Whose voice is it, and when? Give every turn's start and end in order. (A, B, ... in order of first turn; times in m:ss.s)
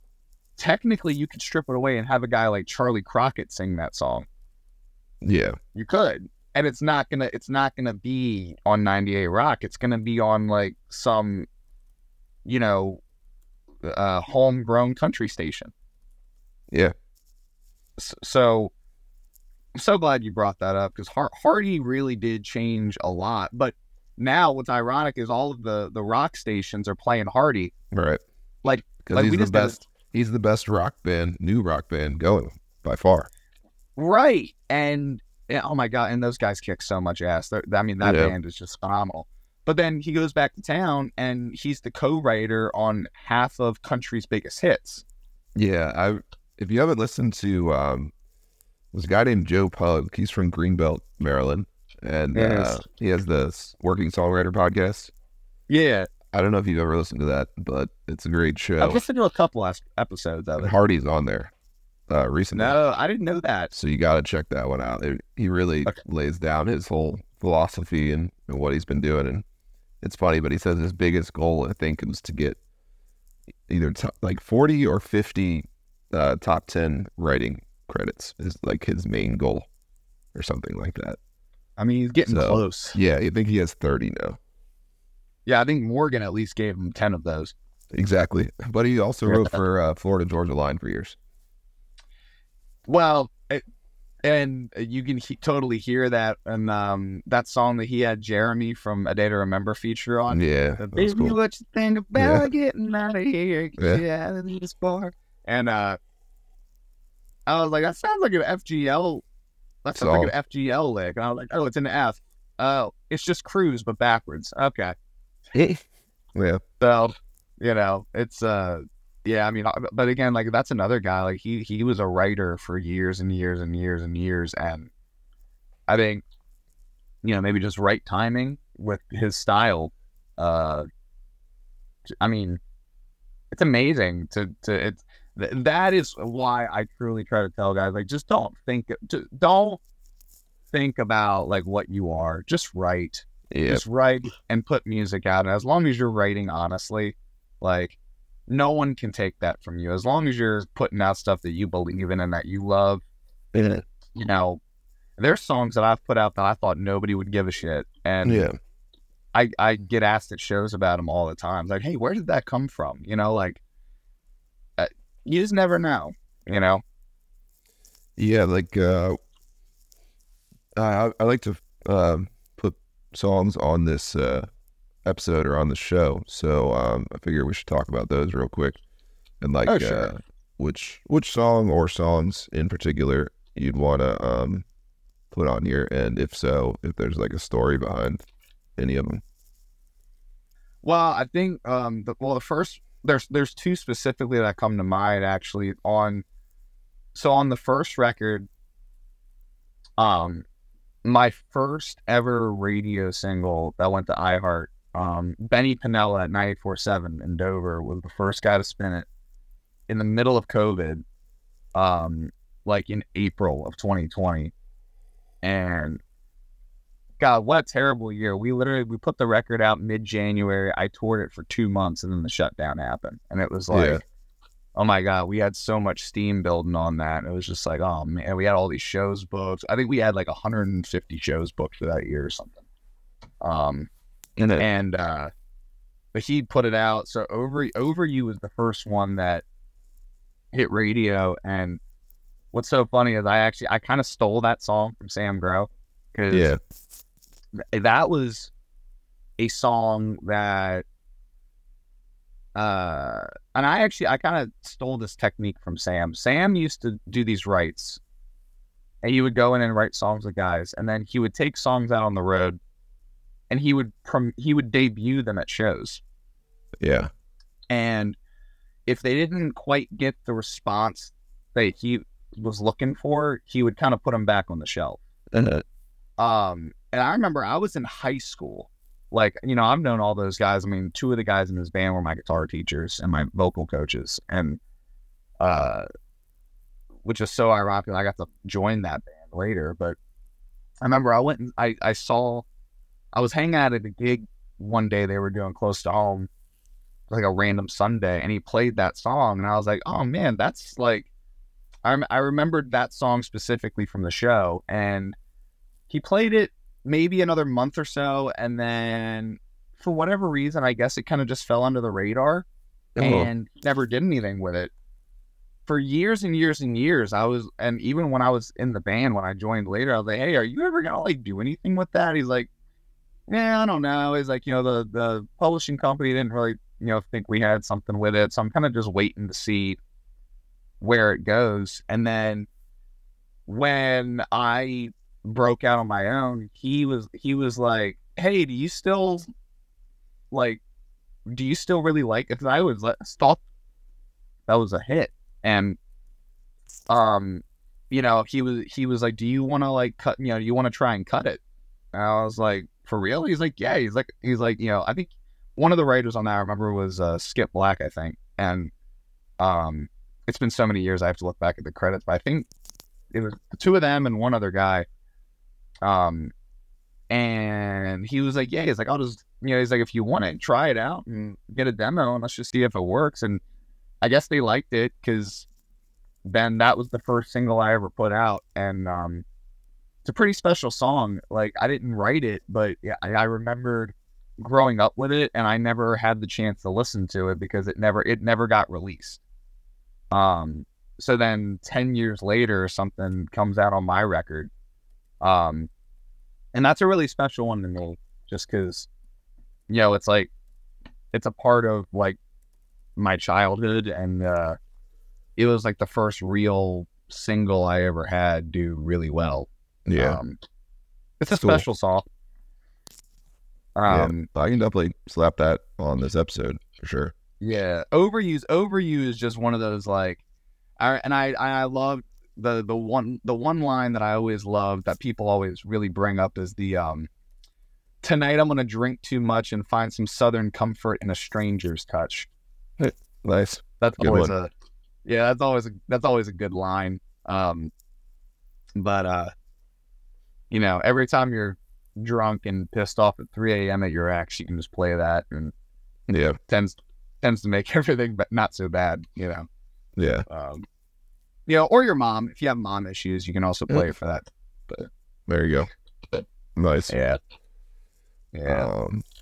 0:00.6-0:04.2 A
0:05.2-0:05.6 B
0:05.7-0:11.5 A
0:12.4-0:13.0 A
0:13.8-0:15.7 A
0:18.0-0:18.7 A
0:19.8-0:27.7 A
0:27.9-0:28.2 B
0:28.6-0:29.8 A
0:29.0-0:33.3 B
0:34.0-0:45.0 A
0:38.0-0:38.3 B
0:45.5-0:48.1 B
0:48.9-0:55.1 B
0:52.3-0:52.8 A
0:55.7-0:56.1 A
0:56.3-0:59.0 B
0:58.8-1:00.7 A
1:00.6-1:01.5 B
1:02.1-1:02.7 B
1:02.5-1:03.7 A
1:03.7-1:09.4 B
1:10.0-1:12.6 B
1:13.7-1:19.7 B
1:20.3-1:21.2 B
1:21.8-1:23.0 A
1:22.3-1:24.4 B
1:25.4-1:27.5 A
1:27.9-1:31.2 B
1:29.3-1:29.6 A
1:32.9-1:33.6 A
1:34.2-1:46.0 A
1:40.3-1:41.4 B
1:42.2-1:42.5 B
1:47.5-1:49.2 A
1:49.8-1:54.9 A
1:49.9-1:50.3 B
1:55.5-1:55.8 B
1:56.3-1:56.6 B
1:56.8-2:04.9 A
2:05.9-2:06.2 A
2:07.2-2:10.9 A
2:12.2-2:12.6 A
2:13.5-2:19.8 A
2:20.7-2:28.0 A
2:23.5-2:23.8 B
2:28.5-2:33.0 A
2:33.5-2:33.8 B
2:34.1-2:34.6 A
2:35.2-2:38.5 A
2:38.2-2:38.6 B
2:39.3-2:43.6 A
2:44.8-2:46.8 A
2:48.2-2:49.2 B
2:50.8-2:54.5 B
2:55.0-2:58.8 B
2:59.4-3:04.6 B
2:59.6-3:00.0 A
3:05.3-3:08.2 B
3:08.8-3:09.2 B
3:10.8-3:16.2 A
3:17.1-3:18.5 A
3:20.0-3:20.4 A
3:21.0-3:29.1 A
3:29.9-3:31.0 A
3:31.7-3:34.5 A
3:35.4-3:36.0 A
3:37.2-3:44.0 A
3:43.7-3:44.0 B
3:44.8-3:52.6 A
3:53.4-3:53.9 A
3:54.4-3:54.6 B
3:54.6-3:55.3 A
3:56.1-3:59.4 A
4:00.5-4:01.8 A
4:02.5-4:06.5 A
4:06.3-4:06.6 B
4:07.7-4:08.5 A
4:09.4-4:10.8 A
4:12.5-4:18.0 A
4:19.0-4:22.6 A
4:23.5-4:26.0 A
4:26.8-4:27.1 B
4:27.7-4:28.2 A
4:28.9-4:35.0 A
4:35.3-4:35.6 B
4:36.2-4:44.6 A
4:45.4-4:45.8 A
4:47.0-4:50.0 A
4:50.8-4:52.4 A
4:53.1-4:56.3 A
4:57.1-5:01.1 A
5:01.8-5:05.2 A
5:05.9-5:12.4 A
5:13.0-5:13.3 B
5:13.0-5:14.7 A
5:15.6-5:22.5 A
5:23.3-5:29.8 A
5:30.8-5:32.5 A
5:33.5-5:39.3 A
5:40.3-5:40.6 A
5:41.3-5:43.4 A
5:44.5-5:45.8 A
5:46.9-5:51.4 A
5:51.9-5:58.7 A
5:59.4-6:02.5 A
6:03.1-6:04.9 A
6:05.8-6:06.3 A
6:07.1-6:13.4 A
6:14.0-6:15.5 A
6:16.2-6:19.2 A
6:20.0-6:29.2 A
6:30.1-6:34.5 A
6:35.2-6:35.7 A
6:36.5-6:38.9 A
6:39.7-6:40.3 A
6:41.1-6:42.2 A
6:43.0-6:44.6 A
6:45.4-6:50.4 A
6:49.9-6:50.2 B
6:51.2-6:52.0 A
6:51.3-6:51.6 B
6:53.8-6:54.3 A
6:53.9-6:57.1 B
6:57.4-7:00.2 A
7:00.8-7:07.1 A
7:08.0-7:12.3 A
7:12.8-7:14.3 B
7:13.8-7:14.5 A
7:15.0-7:17.7 A
7:18.8-7:19.3 A
7:20.5-7:25.5 A
7:26.1-7:26.4 B
7:26.5-7:29.5 A
7:30.0-7:30.2 B
7:30.3-7:30.6 A
7:31.5-7:34.9 A
7:35.3-7:35.7 B
7:36.6-7:36.9 B
7:36.9-7:37.2 A
7:38.3-7:38.7 A
7:38.5-7:39.0 B